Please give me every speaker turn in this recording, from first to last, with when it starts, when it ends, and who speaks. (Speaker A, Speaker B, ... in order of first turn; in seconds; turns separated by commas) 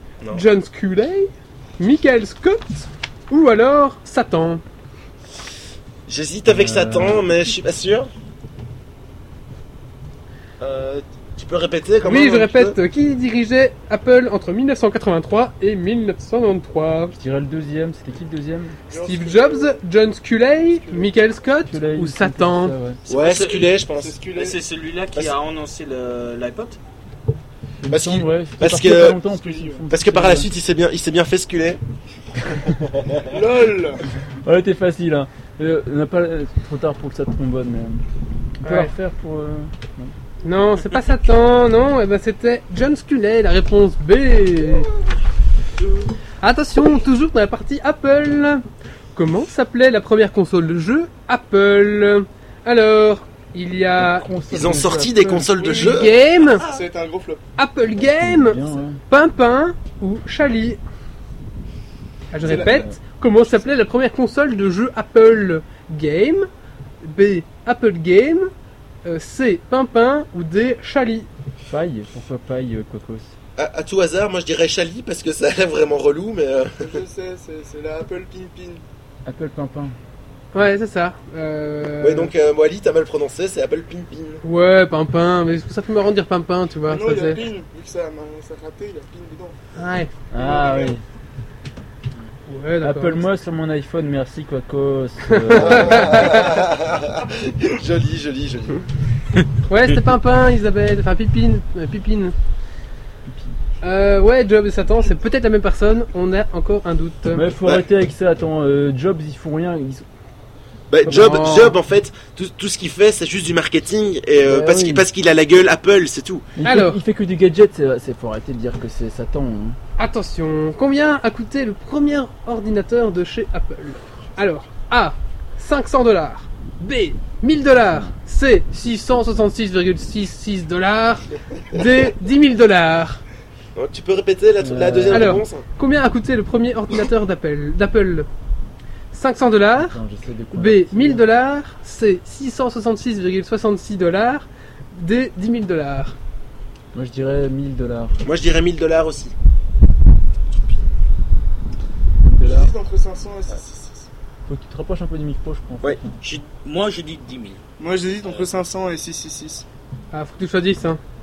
Speaker A: 0.3-4.6, Speaker B: 6.1-8.1, Speaker C: 6.5-7.2, Speaker B: 10.6-12.8, Speaker A: 12.0-17.1, Speaker C: 17.1-18.8, Speaker D: 18.9-19.8, Speaker A: 18.9-22.7, Speaker D: 20.7-21.2, Speaker C: 21.7-23.0, Speaker E: 23.1-23.8, Speaker B: 23.1-24.1, Speaker D: 23.9-24.6, Speaker E: 24.3-26.8, Speaker C: 27.8-30.5, Speaker B: 27.9-29.2, Speaker D: 29.2-29.9, Speaker B: 29.9-31.8, Speaker C: 32.5-32.8, Speaker B: 32.8-33.4, Speaker D: 33.2-34.0, Speaker C: 34.4-38.0, Speaker C: 38.6-40.1, Speaker A: 38.6-38.9, Speaker A: 40.4-44.9, Speaker A: 46.4-48.6, Speaker A: 49.1-54.3, Speaker C: 54.0-55.5, Speaker B: 54.5-56.1, Speaker D: 55.5-57.5, Speaker A: 55.6-56.6, Speaker A: 57.6-60.8, Speaker C: 58.1-59.0, Speaker A: 62.3-66.5, Speaker D: 62.4-62.9, Speaker C: 62.4-63.0, Speaker A: 67.0-68.5, Speaker A: 69.0-71.3, Speaker C: 71.7-73.3, Speaker B: 73.6-77.0, Speaker D: 76.8-78.8, Speaker C: 79.3-80.0, Speaker A: 80.5-82.3, Speaker B: 82.0-84.4, Speaker A: 84.4-87.4, Speaker D: 86.8-89.6, Speaker A: 89.8-90.1, Speaker C: 90.3-91.0, Speaker D: 90.3-91.0, Speaker A: 92.5-93.2, Speaker C: 92.8-96.4, Speaker A: 95.3-96.5, Speaker B: 95.5-98.9, Speaker A: 99.7-102.3, Speaker C: 103.3-103.6, Speaker A: 103.8-107.5, Speaker C: 107.3-110.0, Speaker B: 110.9-116.5, Speaker A: 111.1-111.8, Speaker C: 111.1-111.4, Speaker C: 114.5-115.0, Speaker C: 116.6-119.8, Speaker A: 116.6-117.0, Speaker A: 120.0-133.2, Speaker B: 133.8-135.6, Speaker C: 134.6-135.4, Speaker A: 135.1-138.3, Speaker A: 139.1-140.0, Speaker C: 139.8-141.2, Speaker A: 140.5-146.2, Speaker C: 146.9-148.2, Speaker B: 148.2-149.3, Speaker C: 152.2-152.7, Speaker D: 152.4-154.1, Speaker C: 154.5-156.2, Speaker E: 156.2-157.6, Speaker D: 157.8-159.7, Speaker A: 160.1-161.0